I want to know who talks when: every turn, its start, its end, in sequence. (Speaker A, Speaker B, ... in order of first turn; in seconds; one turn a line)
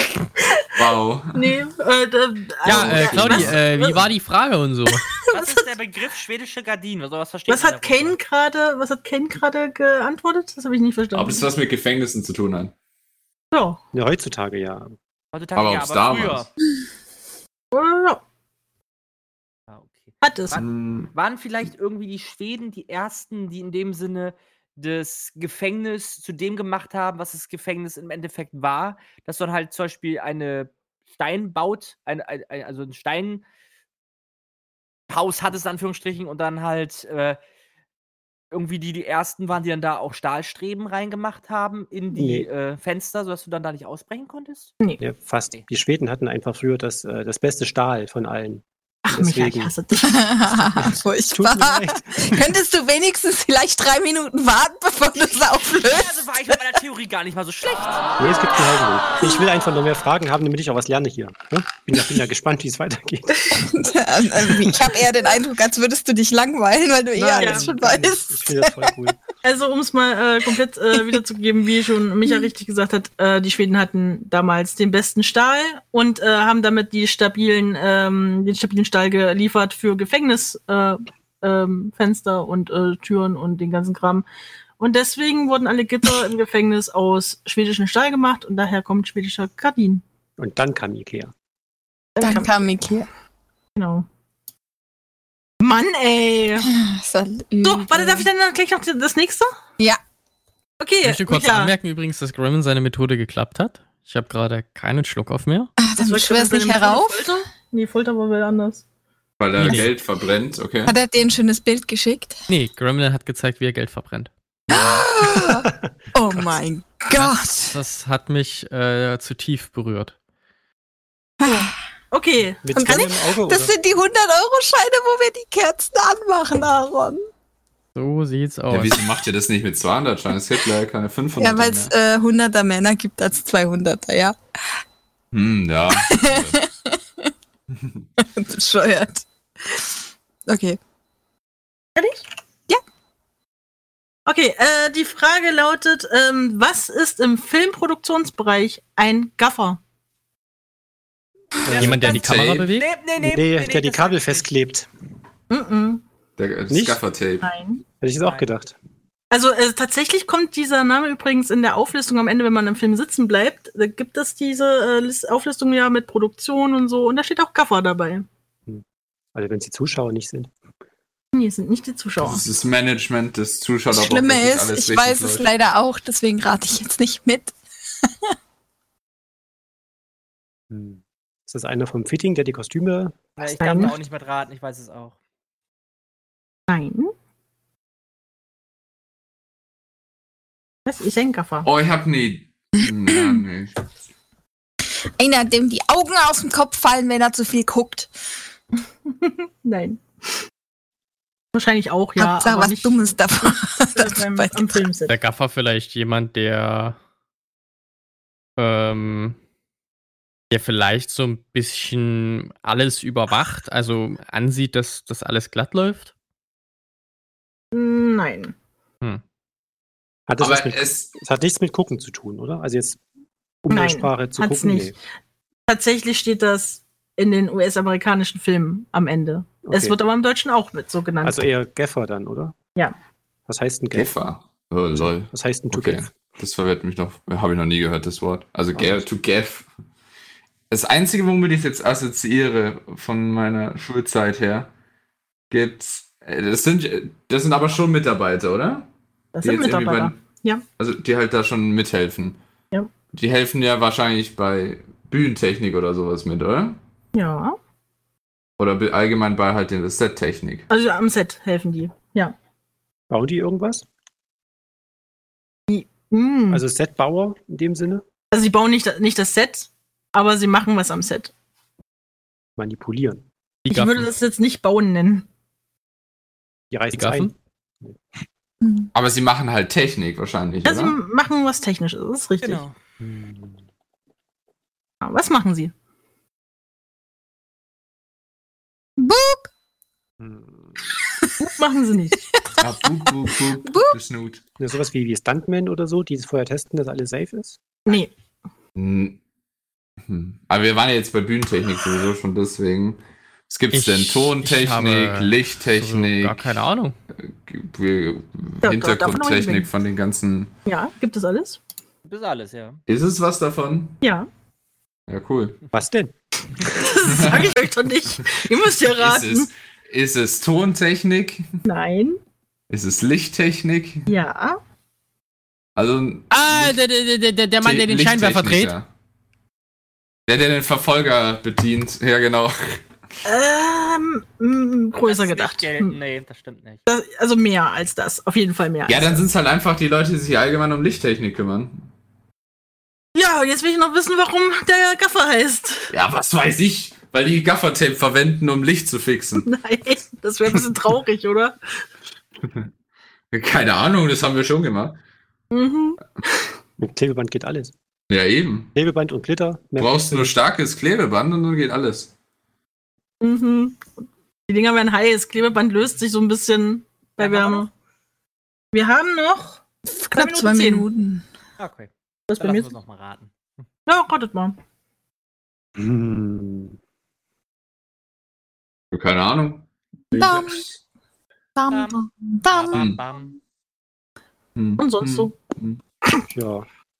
Speaker A: 0.4-0.8
Speaker B: 0.8-1.6
Speaker A: 1.3-4.0
Speaker C: 2.6-5.1
Speaker B: 2.6-3.6
Speaker A: 4.9-5.7
Speaker D: 5.3-8.2
Speaker A: 7.5-11.5
Speaker B: 11.1-12.7
Speaker A: 13.5-13.8
Speaker E: 13.9-14.9
Speaker D: 15.3-16.5
Speaker B: 15.6-16.5
Speaker A: 17.7-18.2
Speaker D: 19.7-33.4
Speaker A: 20.2-20.6
Speaker B: 20.5-21.1
Speaker D: 35.1-37.4
Speaker D: 38.5-44.7
Speaker E: 42.1-42.5
Speaker E: 45.0-49.7
Speaker A: 49.0-50.3
Speaker F: 50.0-56.6
Speaker E: 50.6-52.5
Speaker D: 55.8-58.1
Speaker E: 58.2-63.4
Speaker F: 63.5-68.9
Speaker E: 67.2-69.2
Speaker A: 67.4-67.7
Speaker A: 69.4-84.2
Speaker A: 84.8-90.0
Speaker E: 90.4-91.3
Speaker A: 92.2-92.5
Speaker F: 92.2-93.1
Speaker A: 93.8-94.0
Speaker A: 95.6-96.7
Speaker F: 96.6-98.3
Speaker A: 97.6-99.5
Speaker A: 100.8-101.7
Speaker C: 101.0-105.7
Speaker F: 105.8-107.3
Speaker A: 106.0-108.8
Speaker B: 109.4-110.9
Speaker C: 109.6-109.9
Speaker F: 110.8-112.4
Speaker C: 112.5-114.3
Speaker F: 114.7-117.8
Speaker E: 115.4-115.7
Speaker C: 117.1-120.1
Speaker F: 121.4-121.7
Speaker A: 121.5-123.0
Speaker E: 122.6-123.7
Speaker F: 122.7-127.2
Speaker C: 128.0-129.0
Speaker B: 128.7-131.9
Speaker F: 131.4-134.3
Speaker B: 135.3-136.6
Speaker F: 135.9-137.3
Speaker B: 137.7-138.0
Speaker F: 138.2-139.9
Speaker F: 140.4-140.8
Speaker A: 141.9-142.2
Speaker A: 144.2-149.8
Speaker E: 151.7-152.1
Speaker D: 151.7-154.5
Speaker C: 151.8-152.9
Speaker B: 152.1-152.7
Speaker E: 153.2-154.9
Speaker A: 155.5-156.0
Speaker B: 156.4-157.5
Speaker E: 156.7-157.0
Speaker A: 157.4-157.8
Speaker E: 158.0-158.8
Speaker D: 158.2-158.5
Speaker A: 159.3-168.2
Speaker E: 169.3-170.5
Speaker A: 171.3-172.4
Speaker B: 172.2-175.5
Speaker F: 173.9-178.3
Speaker E: 180.7-183.9
Speaker D: 183.4-185.2
Speaker A: 183.6-183.9
Speaker A: 186.7-187.1
Speaker A: 190.8-191.7
Speaker B: 191.6-193.7
Speaker F: 193.1-193.4
Speaker F: 195.2-198.1
Speaker A: 199.1-200.0
Speaker A: 201.5-205.1
Speaker F: 202.2-204.8
Speaker C: 205.1-207.0
Speaker C: 208.6-209.3
Speaker C: 210.5-216.1
Speaker A: 217.7-218.5
Speaker E: 220.3-223.0
Speaker B: 220.4-221.1
Speaker E: 223.6-224.9
Speaker A: 223.7-224.9
Speaker A: 225.7-231.4
Speaker E: 229.6-230.0
Speaker E: 231.2-232.5
Speaker E: 233.5-234.1
Speaker B: 233.9-239.7
Speaker E: 234.9-236.1
Speaker E: 238.7-239.1
Speaker B: 240.7-244.7
Speaker B: 245.5-248.9
Speaker A: 249.3-250.6
Speaker B: 249.4-250.2
Speaker B: 250.8-252.4
Speaker B: 253.1-256.8
Speaker A: 257.1-257.6
Speaker B: 258.6-260.7
Speaker A: 260.7-262.3
Speaker E: 263.1-263.8
Speaker A: 265.7-266.6
Speaker E: 266.5-268.0
Speaker A: 268.3-271.3
Speaker E: 272.6-273.2
Speaker C: 273.6-274.1
Speaker A: 273.7-275.2
Speaker E: 276.7-278.0
Speaker C: 276.9-277.3
Speaker F: 278.6-278.9
Speaker B: 278.9-281.0
Speaker A: 280.6-282.6
Speaker D: 282.4-282.7
Speaker E: 283.0-283.6
Speaker A: 285.0-285.7
Speaker F: 289.0-289.5
Speaker E: 290.2-290.9
Speaker A: 291.4-292.2
Speaker B: 292.6-294.4
Speaker F: 293.0-293.9
Speaker E: 294.6-297.6
Speaker A: 297.9-298.1
Speaker B: 298.8-299.2
Speaker B: 300.1-306.5
Speaker C: 303.7-306.9
Speaker B: 307.2-310.5
Speaker A: 308.6-309.7
Speaker A: 310.7-311.6
Speaker D: 312.0-312.8
Speaker B: 312.9-314.0
Speaker A: 314.0-314.3
Speaker B: 315.1-315.6
Speaker E: 315.7-316.1
Speaker A: 316.6-319.5
Speaker B: 317.0-317.5
Speaker B: 318.8-321.5
Speaker A: 321.6-322.2
Speaker B: 322.7-324.1
Speaker A: 324.1-324.6
Speaker B: 325.8-326.8
Speaker C: 326.3-328.8
Speaker B: 327.6-328.9
Speaker B: 330.3-332.8
Speaker A: 333.2-336.0
Speaker D: 335.0-336.8
Speaker A: 336.9-339.2
Speaker B: 338.9-341.9
Speaker A: 343.1-345.9
Speaker B: 345.9-349.5
Speaker A: 349.4-351.6
Speaker B: 353.3-355.0
Speaker A: 355.5-356.0
Speaker E: 356.8-357.7
Speaker B: 358.1-358.7
Speaker E: 358.7-360.3
Speaker B: 359.8-362.1
Speaker A: 363.2-363.9
Speaker A: 364.5-367.7
Speaker D: 367.2-367.7
Speaker A: 368.7-369.6
Speaker F: 369.9-371.2
Speaker A: 370.1-370.9
Speaker D: 371.6-373.6
Speaker A: 372.3-372.7
Speaker A: 373.9-374.6
Speaker E: 375.8-376.8
Speaker B: 378.9-380.7
Speaker F: 380.1-380.6
Speaker F: 381.6-382.9
Speaker D: 381.7-383.4
Speaker B: 384.6-385.8
Speaker A: 384.8-385.3
Speaker E: 386.3-386.7